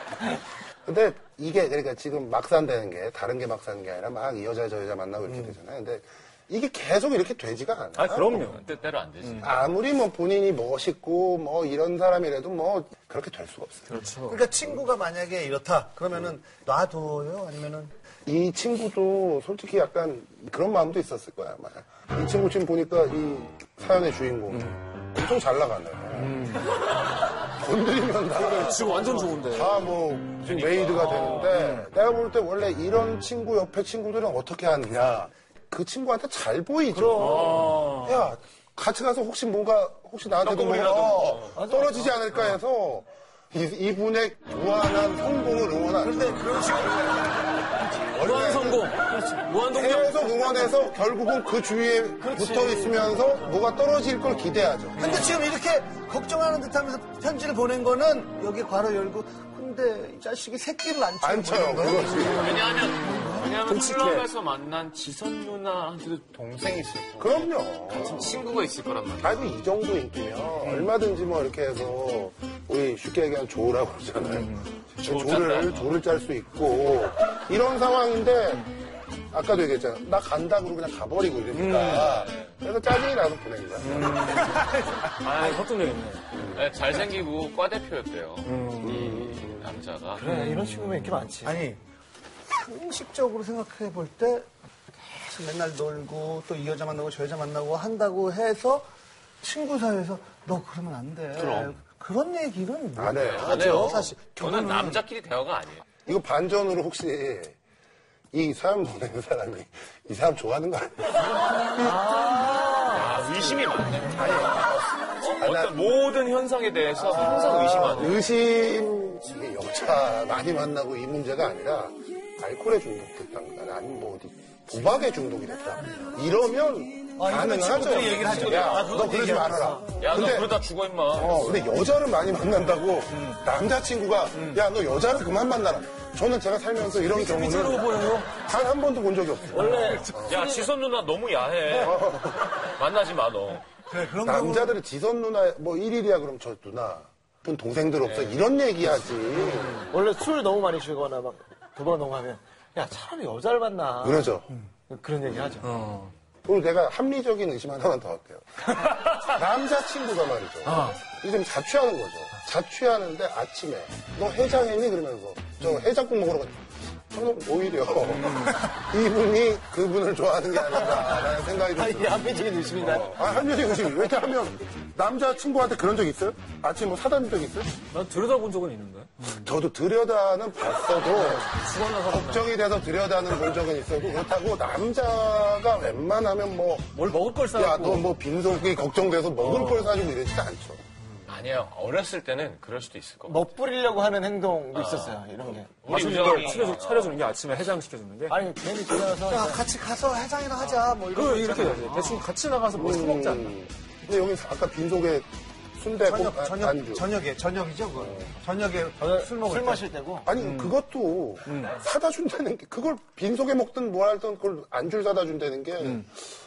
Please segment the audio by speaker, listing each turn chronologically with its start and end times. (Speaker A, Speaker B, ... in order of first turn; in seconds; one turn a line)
Speaker A: 0.9-8.6
Speaker B: 8.0-8.6
Speaker C: 8.3-9.7
Speaker A: 9.4-13.9
Speaker B: 13.9-14.4
Speaker D: 14.3-17.9
Speaker A: 18.3-26.4
Speaker B: 24.5-24.8
Speaker B: 26.1-26.7
Speaker A: 27.5-46.4
Speaker B: 28.3-29.9
Speaker E: 28.9-29.3
Speaker C: 30.4-31.6
Speaker E: 31.3-31.8
Speaker E: 36.9-37.5
Speaker B: 37.2-38.2
Speaker C: 40.4-41.6
Speaker E: 41.6-42.2
Speaker D: 46.0-47.7
Speaker B: 48.1-50.2
Speaker A: 48.1-49.0
Speaker A: 49.7-55.2
Speaker E: 52.2-53.4
Speaker B: 55.0-55.4
Speaker D: 55.0-63.4
Speaker A: 61.2-62.5
Speaker C: 62.2-69.5
Speaker B: 62.5-64.3
Speaker A: 67.2-68.4
Speaker A: 69.2-78.7
Speaker B: 70.7-70.9
Speaker C: 75.0-76.0
Speaker A: 79.3-84.3
Speaker B: 81.5-82.2
Speaker C: 81.7-82.5
Speaker B: 83.8-86.3
Speaker C: 85.2-85.6
Speaker A: 86.4-86.7
Speaker C: 86.5-90.2
Speaker B: 88.4-89.0
Speaker A: 88.8-89.7
Speaker E: 90.2-91.6
Speaker B: 90.2-91.2
Speaker D: 91.4-91.8
Speaker D: 92.5-94.5
Speaker D: 95.0-98.8
Speaker D: 99.4-105.0
Speaker C: 101.4-101.8
Speaker A: 103.0-103.9
Speaker C: 103.2-105.8
Speaker A: 106.0-107.6
Speaker A: 108.3-111.4
Speaker E: 111.8-113.1
Speaker C: 112.9-118.2
Speaker A: 114.1-115.8
Speaker A: 117.0-130.6
Speaker D: 127.2-129.8
Speaker C: 127.9-129.1
Speaker C: 130.0-131.6
Speaker A: 131.2-140.4
Speaker B: 136.9-138.4
Speaker E: 139.5-140.7
Speaker C: 140.2-143.7
Speaker A: 141.7-142.5
Speaker D: 143.9-144.8
Speaker A: 144.2-149.9
Speaker C: 148.0-148.4
Speaker E: 149.8-155.7
Speaker A: 154.0-154.5
Speaker B: 155.6-156.1
Speaker A: 156.5-177.7
Speaker B: 160.7-161.0
Speaker B: 168.3-168.6
Speaker E: 170.7-171.1
Speaker E: 171.8-173.3
Speaker B: 177.9-179.4
Speaker A: 179.3-181.5
Speaker B: 181.2-182.4
Speaker A: 182.0-190.8
Speaker B: 187.0-188.1
Speaker B: 189.4-189.9
Speaker C: 191.3-193.5
Speaker E: 193.3-196.5
Speaker C: 194.7-195.3
Speaker C: 195.8-197.2
Speaker B: 195.9-198.4
Speaker E: 198.3-199.6
Speaker D: 199.3-202.1
Speaker B: 201.1-203.5
Speaker A: 202.7-207.1
Speaker D: 206.1-209.9
Speaker E: 209.0-210.3
Speaker A: 210.3-216.1
Speaker B: 210.4-210.7
Speaker B: 211.5-211.8